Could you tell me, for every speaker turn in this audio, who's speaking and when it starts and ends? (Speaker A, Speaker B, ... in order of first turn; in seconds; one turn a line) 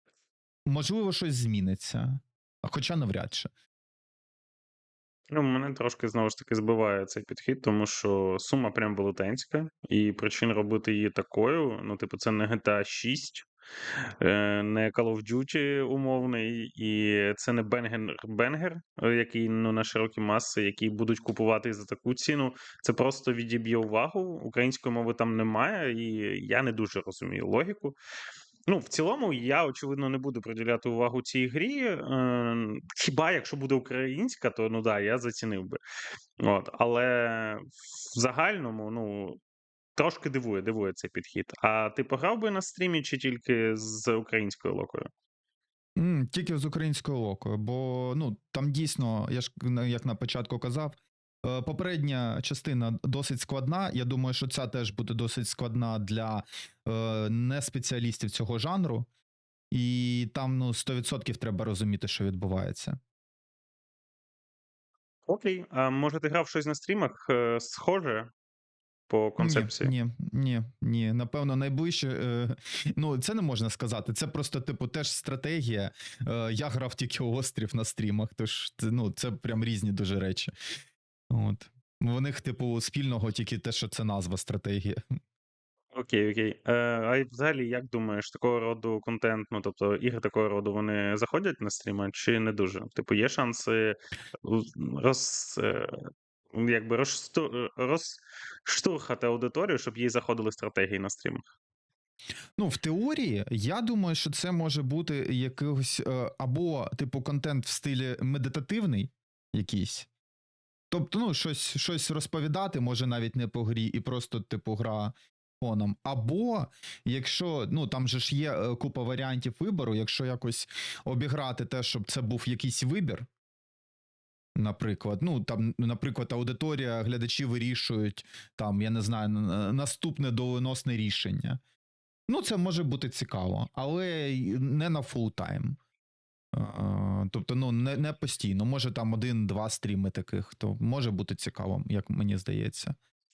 Speaker A: 0.7-3.5
Speaker B: 5.3-13.5
Speaker B: 14.2-28.0
Speaker B: 28.7-35.8
Speaker B: 36.4-39.4
Speaker B: 40.0-45.1
Speaker A: 46.0-59.1
Speaker A: 59.7-63.0
Speaker B: 65.3-68.3
Speaker B: 69.1-69.9
Speaker A: 69.4-80.5
Speaker A: 81.3-85.0
Speaker B: 85.9-96.0
Speaker B: 96.5-101.5
Speaker A: 102.6-110.1
Speaker A: 110.9-123.3
Speaker A: 124.6-131.6
Speaker A: 132.3-135.8
Speaker A: 136.5-143.0